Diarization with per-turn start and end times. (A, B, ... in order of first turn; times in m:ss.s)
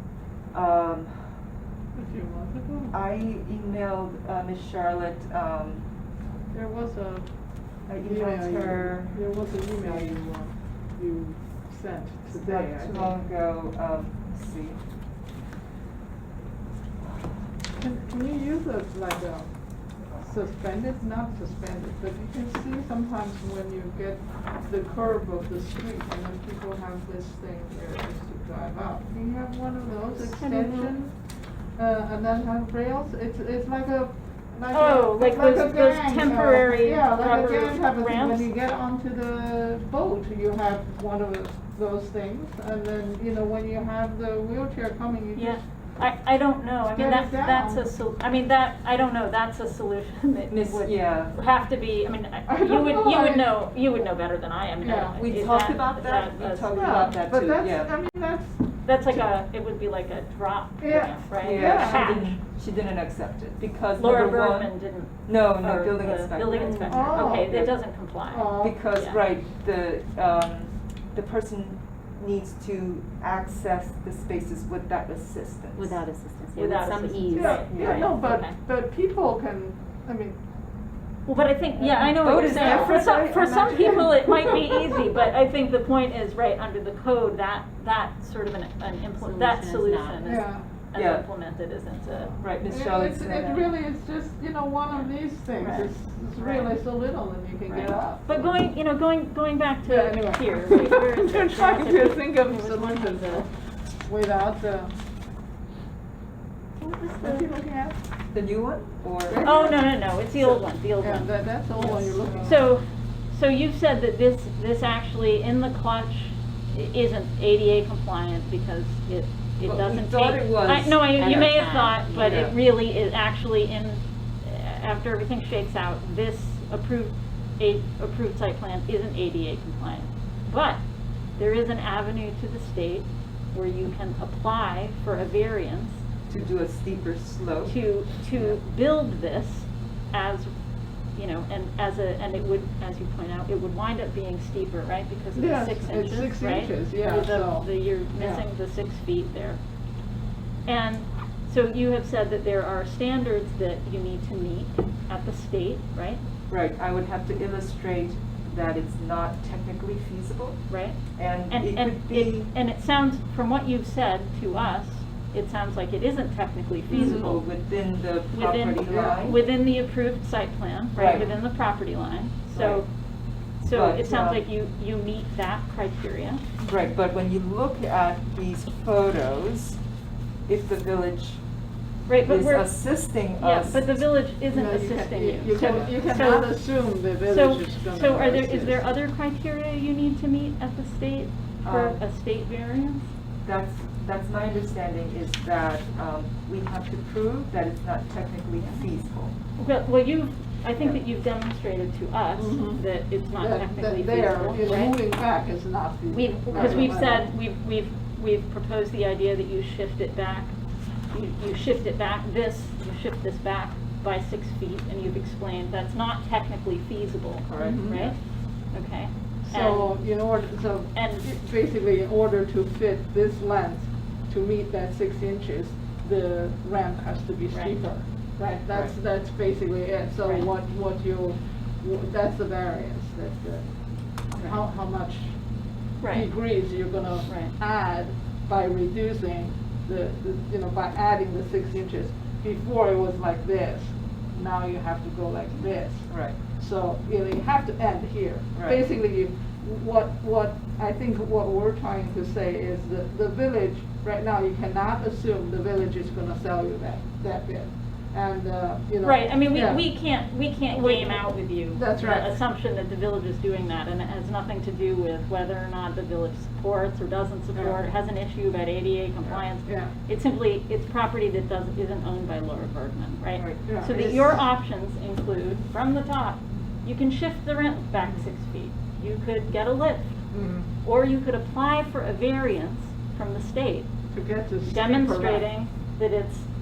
0:00.5-0:01.4 A
0:02.0-0:03.0 B
0:02.9-0:05.8 A
0:06.5-0:07.3 B
0:07.9-0:10.2 A
0:08.0-0:13.2 B
0:12.3-0:14.8 A
0:17.8-0:19.5 B
0:20.2-0:31.1 B
0:30.2-0:30.9 C
0:31.8-0:45.6 B
0:34.7-0:38.5 C
0:45.3-0:57.2 C
0:46.8-0:47.9 B
0:50.5-0:51.3 A
0:52.5-0:53.7 B
0:54.8-0:55.2 B
0:55.2-0:57.9 A
0:56.7-0:59.2 B
0:58.8-1:02.4 C
1:00.8-1:02.2 B
1:01.4-1:04.7 A
1:04.0-1:09.2 C
1:05.2-1:07.7 A
1:06.6-1:07.6 B
1:08.3-1:08.8 B
1:08.6-1:16.0 A
1:15.8-1:18.5 D
1:16.5-1:18.6 C
1:17.3-1:20.4 B
1:17.7-1:18.0 A
1:21.2-1:32.4 C
1:22.0-1:24.1 A
1:22.5-1:23.0 B
1:23.7-1:25.0 B
1:29.2-1:30.2 D
1:30.2-1:30.7 B
1:30.9-1:31.2 A
1:32.4-1:33.7 A
1:32.6-1:38.6 B
1:35.6-1:36.8 C
1:37.7-1:43.5 C
1:39.8-1:43.5 B
1:44.0-1:44.9 B
1:46.8-1:47.5 C
1:47.2-1:48.0 B
1:48.3-1:49.5 A
1:49.3-1:52.7 B
1:49.4-1:51.4 C
1:52.4-2:10.8 C
1:59.6-2:02.5 A
2:01.2-2:02.4 D
2:11.4-2:16.0 C
2:16.3-2:17.8 A
2:17.7-2:20.5 C
2:21.1-2:29.6 C
2:25.3-2:28.4 B
2:30.7-2:36.2 C
2:36.5-2:40.6 A
2:40.7-2:47.5 C
2:41.1-2:42.5 A
2:46.9-2:49.4 A
2:48.3-2:52.9 C
2:48.9-2:49.2 B
2:50.9-2:51.3 A
2:52.5-2:52.8 A
2:53.6-2:56.4 C
2:53.7-2:54.4 A
2:56.6-2:59.8 A
3:00.5-3:01.4 A
3:02.1-3:06.7 C
3:02.2-3:03.9 A
3:04.5-3:08.9 B
3:05.6-3:05.8 A
3:07.2-3:13.0 C
3:11.6-3:12.0 A
3:13.4-3:19.3 A
3:19.6-3:25.0 C
3:22.4-3:22.8 B
3:23.4-3:27.3 B
3:26.1-3:27.2 D
3:26.5-3:30.5 C
3:26.5-3:26.9 A
3:31.1-3:38.2 C
3:37.5-3:38.1 A
3:37.6-3:38.0 B
3:38.7-3:40.0 C
3:39.5-3:53.7 B
3:40.9-3:41.2 C
3:54.2-3:55.4 B
3:56.0-3:56.3 C
3:56.0-4:19.9 B
3:57.3-3:57.5 C
4:06.1-4:06.4 A
4:19.0-4:40.2 C
4:20.7-4:22.4 B
4:29.2-4:29.9 B
4:33.3-4:34.0 A
4:33.6-4:34.4 B
4:38.0-4:38.2 B
4:40.3-4:40.7 B
4:40.8-4:43.9 C
4:44.1-4:45.5 B
4:44.6-4:46.4 C